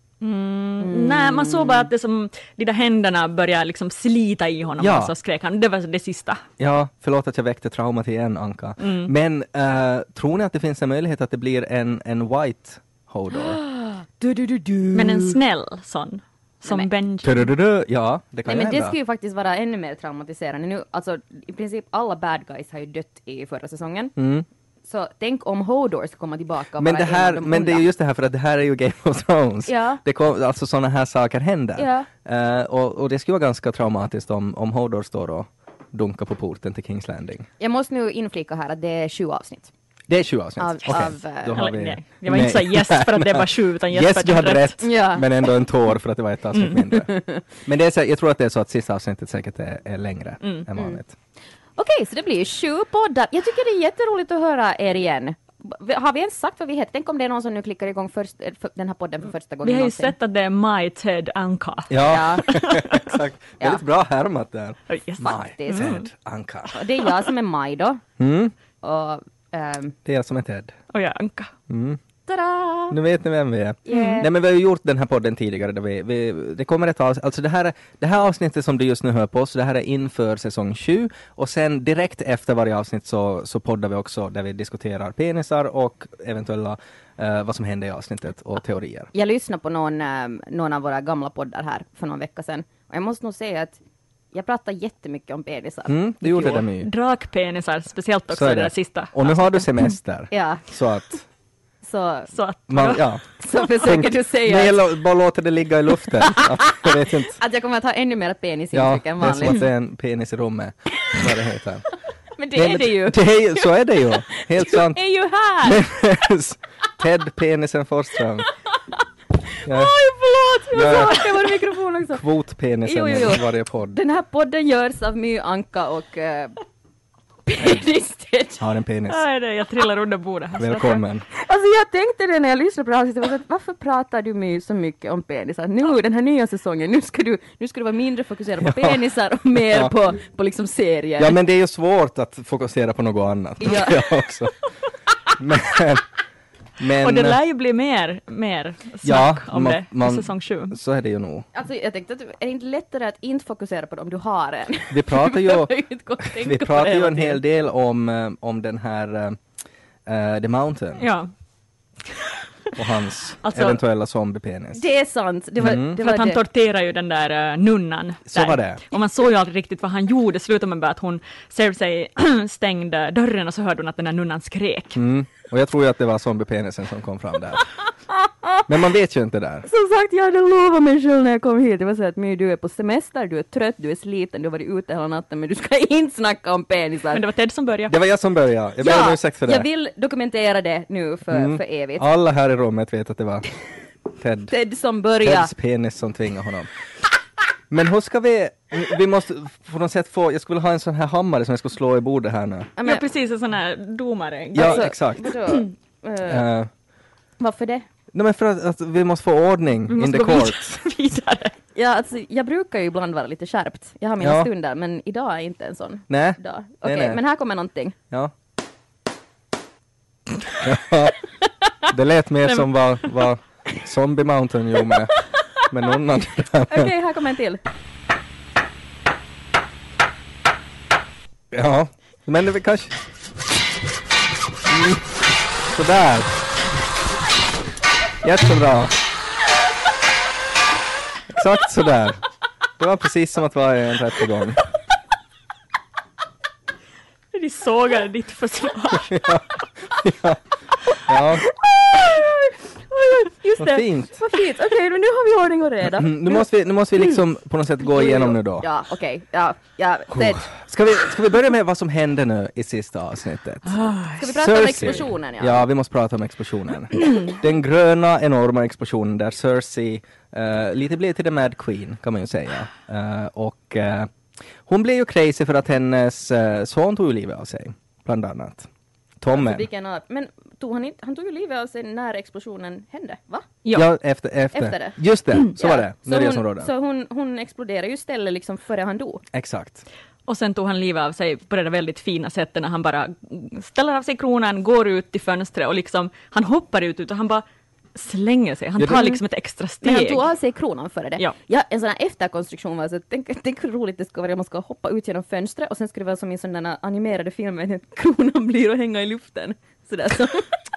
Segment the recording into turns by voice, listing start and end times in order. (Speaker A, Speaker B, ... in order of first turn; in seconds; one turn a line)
Speaker A: 0.2-6.4
Speaker B: 0.8-1.9
Speaker C: 4.8-5.1
Speaker C: 6.6-13.6
Speaker A: 8.8-9.1
Speaker B: 13.3-15.3
Speaker A: 14.9-17.5
Speaker C: 17.2-18.9
Speaker B: 18.4-24.1
Speaker C: 24.2-24.4
Speaker B: 24.8-27.8
Speaker C: 26.8-37.5
Speaker B: 29.7-30.0
Speaker B: 31.8-32.1
Speaker B: 37.6-39.7
Speaker C: 40.1-51.2
Speaker B: 40.6-41.6
Speaker A: 40.9-44.8
Speaker B: 44.8-45.5
Speaker B: 46.9-47.4
Speaker A: 50.4-50.7
Speaker B: 51.8-60.1
Speaker A: 59.6-63.1
Speaker C: 61.9-66.7
Speaker B: 62.1-62.6
Speaker A: 64.9-66.0
Speaker B: 65.4-66.0
Speaker B: 66.7-68.0
Speaker C: 68.2-68.5
Speaker B: 68.8-70.0
Speaker C: 70.1-70.8
Speaker A: 70.9-71.5
Speaker C: 71.7-72.0
Speaker B: 72.3-73.0
Speaker C: 72.9-89.1
Speaker B: 73.8-74.3
Speaker A: 73.9-74.2
Speaker B: 89.1-93.8
Speaker B: 94.3-96.6
Speaker C: 95.9-96.9
Speaker A: 96.8-99.8
Speaker C: 98.3-101.2
Speaker B: 100.3-100.6
Speaker B: 101.8-102.3
Speaker A: 102.3-103.0
Speaker C: 102.7-103.2
Speaker B: 103.4-104.8
Speaker C: 103.8-107.4
Speaker B: 106.2-109.6
Speaker C: 108.7-111.9
Speaker B: 112.3-113.7
Speaker C: 112.5-115.0
Speaker B: 114.3-115.9
Speaker C: 115.6-118.5
Speaker B: 119.5-122.2
Speaker C: 119.7-119.9
Speaker C: 120.7-121.3
Speaker C: 122.1-124.0
Speaker B: 122.8-126.6
Speaker B: 127.5-128.7
Speaker C: 128.6-129.2
Speaker A: 129.1-131.0
Speaker C: 130.6-131.2
Speaker B: 131.3-141.3
Speaker C: 138.6-139.0
Speaker C: 139.6-139.9
Speaker C: 141.2-144.5
Speaker B: 143.6-144.0
Speaker C: 145.3-146.0
Speaker C: 146.8-147.4
Speaker A: 147.0-150.8
Speaker C: 149.0-151.4
Speaker B: 151.5-157.4
Speaker C: 154.9-159.4
Speaker C: 160.1-161.1
Speaker A: 161.0-161.3
Speaker C: 162.8-164.8
Speaker A: 163.4-163.8
Speaker B: 164.7-166.4
Speaker C: 165.6-166.0
Speaker A: 165.9-175.0
Speaker C: 168.3-168.8
Speaker C: 174.9-177.7
Speaker C: 178.7-179.7
Speaker B: 179.7-187.2
Speaker A: 187.1-187.9
Speaker C: 187.9-189.7
Speaker B: 188.8-192.1
Speaker C: 191.3-193.5
Speaker C: 194.2-194.5
Speaker B: 194.5-195.5
Speaker C: 195.2-196.7
Speaker C: 197.7-202.7
Speaker B: 202.8-203.0
Speaker A: 202.8-204.9
Speaker C: 204.5-205.3
Speaker B: 204.6-206.4
Speaker C: 206.2-206.7
Speaker B: 207.4-207.9
Speaker C: 208.1-210.8
Speaker A: 209.9-211.5
Speaker B: 211.7-217.9
Speaker C: 214.2-214.5
Speaker C: 216.1-217.2
Speaker C: 220.6-221.2
Speaker C: 221.9-226.9
Speaker B: 226.7-227.6
Speaker C: 231.5-233.0
Speaker C: 234.7-235.0
Speaker C: 235.7-236.3
Speaker C: 238.2-238.9
Speaker C: 241.3-242.2
Speaker C: 242.8-244.6
Speaker A: 247.3-249.3
Speaker C: 249.1-249.4
Speaker C: 250.0-250.4
Speaker C: 251.1-251.4
Speaker B: 251.9-256.4
Speaker C: 253.6-254.2
Speaker C: 255.9-258.7
Speaker B: 257.9-260.5
Speaker C: 260.1-263.7
Speaker A: 263.7-264.2
Speaker B: 264.2-265.6
Speaker C: 264.3-274.1
Speaker C: 274.7-278.7
Speaker C: 279.2-279.6
Speaker B: 279.3-283.5
Speaker C: 283.7-286.7
Speaker B: 284.5-289.2
Speaker C: 289.3-289.8
Speaker A: 290.3-297.4
Speaker A: 297.9-300.2
Speaker C: 298.8-299.1
Speaker B: 299.8-310.5